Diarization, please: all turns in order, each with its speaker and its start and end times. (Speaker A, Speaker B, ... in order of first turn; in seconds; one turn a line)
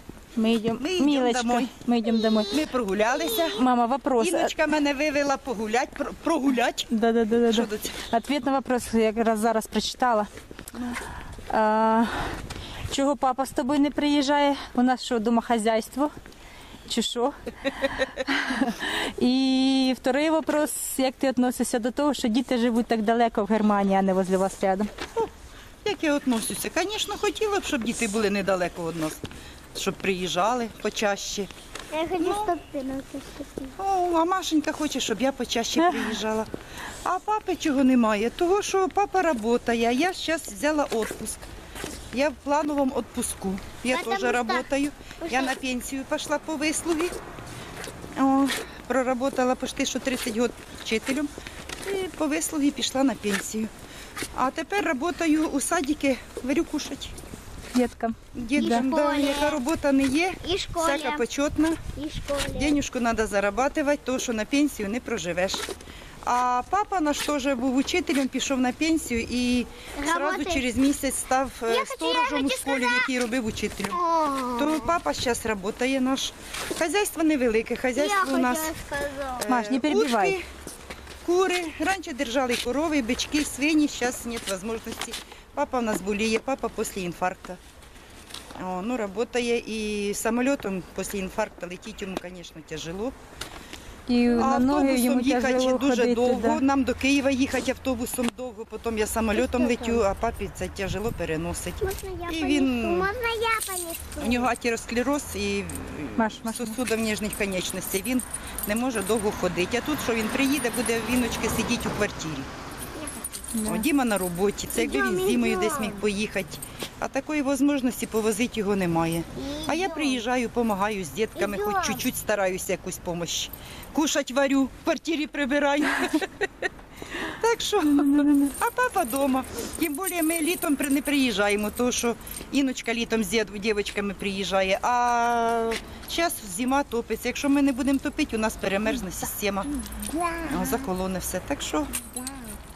Speaker A: 0.3-2.5
Speaker B: 0.8-1.7
Speaker C: 2.3-2.6
Speaker B: 2.5-3.6
Speaker C: 3.1-3.5
Speaker A: 3.5-4.5
Speaker B: 4.2-6.9
Speaker A: 6.9-10.3
Speaker B: 7.5-8.0
Speaker B: 10.7-11.0
Speaker A: 11.5-16.1
Speaker A: 16.9-24.9
Speaker B: 25.8-31.5
Speaker C: 31.9-33.7
Speaker B: 32.2-32.5
Speaker B: 33.8-36.5
Speaker A: 35.9-36.1
Speaker B: 37.0-41.5
Speaker B: 42.1-47.1
Speaker C: 43.9-44.6
Speaker C: 45.2-45.5
Speaker B: 48.1-51.3
Speaker B: 51.8-53.7
Speaker B: 54.3-57.1
Speaker A: 57.7-58.8
Speaker B: 58.3-61.8
Speaker C: 58.6-59.6
Speaker C: 60.4-61.2
Speaker C: 61.9-62.8
Speaker B: 62.5-65.7
Speaker B: 66.2-78.7
Speaker C: 70.0-70.6
Speaker C: 71.7-73.1
Speaker C: 74.0-74.8
Speaker C: 78.0-79.5
Speaker B: 79.4-80.5
Speaker A: 79.5-80.4
Speaker B: 81.2-87.6
Speaker B: 88.5-93.2
Speaker A: 94.1-96.6
Speaker B: 94.3-103.1
Speaker C: 99.4-100.0
Speaker C: 101.8-104.5
Speaker B: 104.2-112.5
Speaker A: 106.2-106.8
Speaker C: 112.9-113.5
Speaker A: 113.5-113.8
Speaker B: 113.7-126.5
Speaker C: 114.7-116.0
Speaker C: 119.3-120.2
Speaker C: 121.3-122.0
Speaker B: 127.2-139.8
Speaker A: 127.8-128.5
Speaker C: 139.9-140.8
Speaker B: 140.4-141.9
Speaker C: 142.1-142.4